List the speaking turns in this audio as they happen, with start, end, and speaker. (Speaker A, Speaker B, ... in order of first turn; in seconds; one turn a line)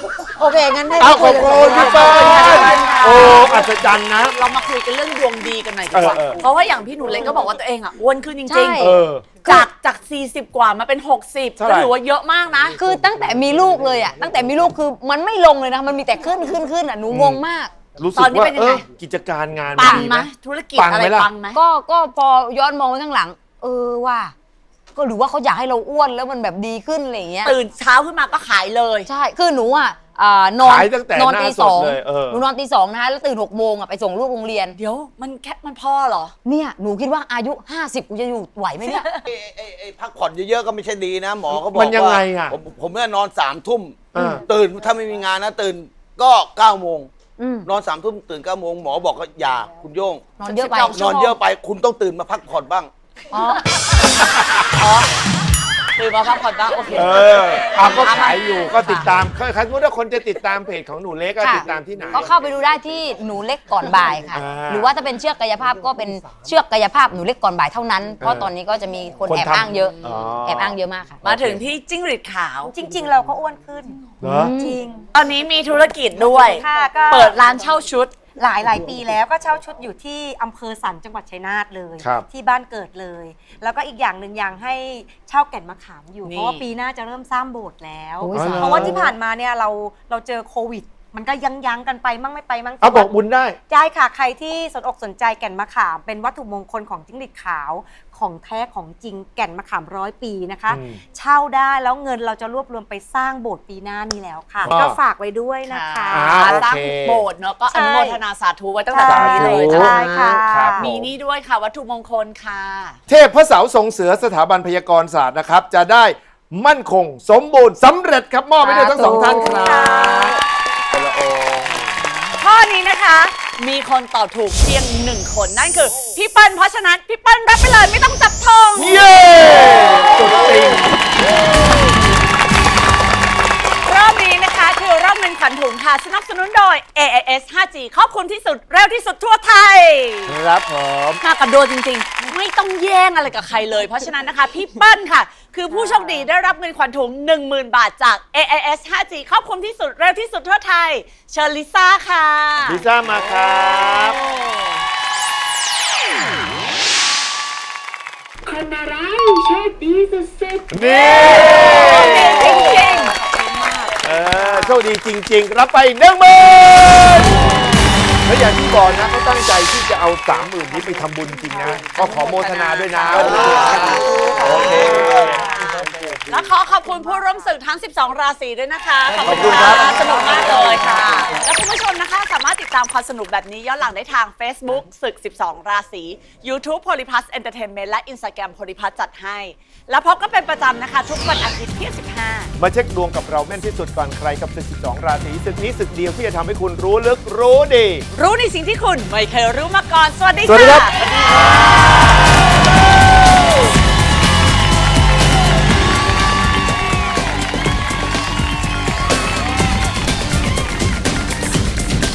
Speaker A: 0.4-2.9
Speaker B: 1.0-4.3
Speaker C: 1.7-12.8
Speaker B: 5.9-6.4
Speaker D: 8.4-8.9
Speaker B: 8.8-9.3
Speaker B: 11.6-11.9
Speaker D: 12.8-17.7
Speaker B: 17.1-17.4
Speaker B: 17.9-21.3
Speaker C: 18.1-18.8
Speaker C: 19.7-21.6
Speaker D: 19.8-20.1
Speaker D: 21.5-24.3
Speaker D: 24.9-27.6
Speaker C: 27.4-29.1
Speaker D: 29.1-34.7
Speaker B: 30.6-32.4
Speaker C: 34.7-36.3
Speaker D: 36.4-39.0
Speaker C: 38.9-39.2
Speaker E: 39.2-47.1
Speaker B: 41.5-42.5
Speaker B: 44.1-44.4
Speaker D: 44.1-44.4
Speaker D: 47.4-47.7
Speaker E: 47.6-50.2
Speaker D: 50.4-51.0
Speaker C: 50.5-51.4
Speaker E: 50.9-52.9
Speaker C: 54.7-55.1
Speaker C: 56.0-59.1
Speaker B: 56.9-62.2
Speaker D: 61.4-71.2
Speaker B: 64.3-64.9
Speaker B: 68.2-68.5
Speaker B: 69.2-71.5
Speaker C: 71.3-72.7
Speaker F: 72.6-75.1
Speaker B: 74.2-74.5
Speaker D: 74.3-74.7
Speaker C: 75.1-78.2
Speaker F: 76.2-93.1
Speaker C: 86.2-86.6
Speaker D: 88.2-88.9
Speaker B: 88.3-89.1
Speaker B: 92.8-93.5
Speaker F: 93.7-106.7
Speaker B: 100.7-101.0
Speaker B: 104.7-105.0
Speaker C: 105.7-110.3
Speaker B: 106.1-107.3
Speaker F: 107.7-108.2
Speaker F: 108.9-111.0
Speaker B: 109.0-111.1
Speaker C: 110.9-113.0
Speaker B: 113.1-120.4
Speaker C: 118.6-120.4
Speaker D: 119.0-119.4
Speaker B: 120.9-121.9
Speaker C: 122.4-129.6
Speaker B: 128.8-130.8
Speaker C: 133.8-140.4
Speaker B: 140.3-141.2
Speaker C: 141.2-152.8
Speaker B: 152.6-154.2
Speaker C: 154.1-154.7
Speaker G: 158.5-160.9
Speaker B: 160.7-162.6
Speaker C: 161.3-164.8
Speaker B: 164.0-167.4
Speaker B: 168.2-175.3
Speaker C: 171.8-192.5
Speaker E: 173.2-175.4
Speaker B: 179.2-180.0
Speaker B: 192.6-198.0
Speaker C: 198.1-200.9
Speaker B: 200.4-200.9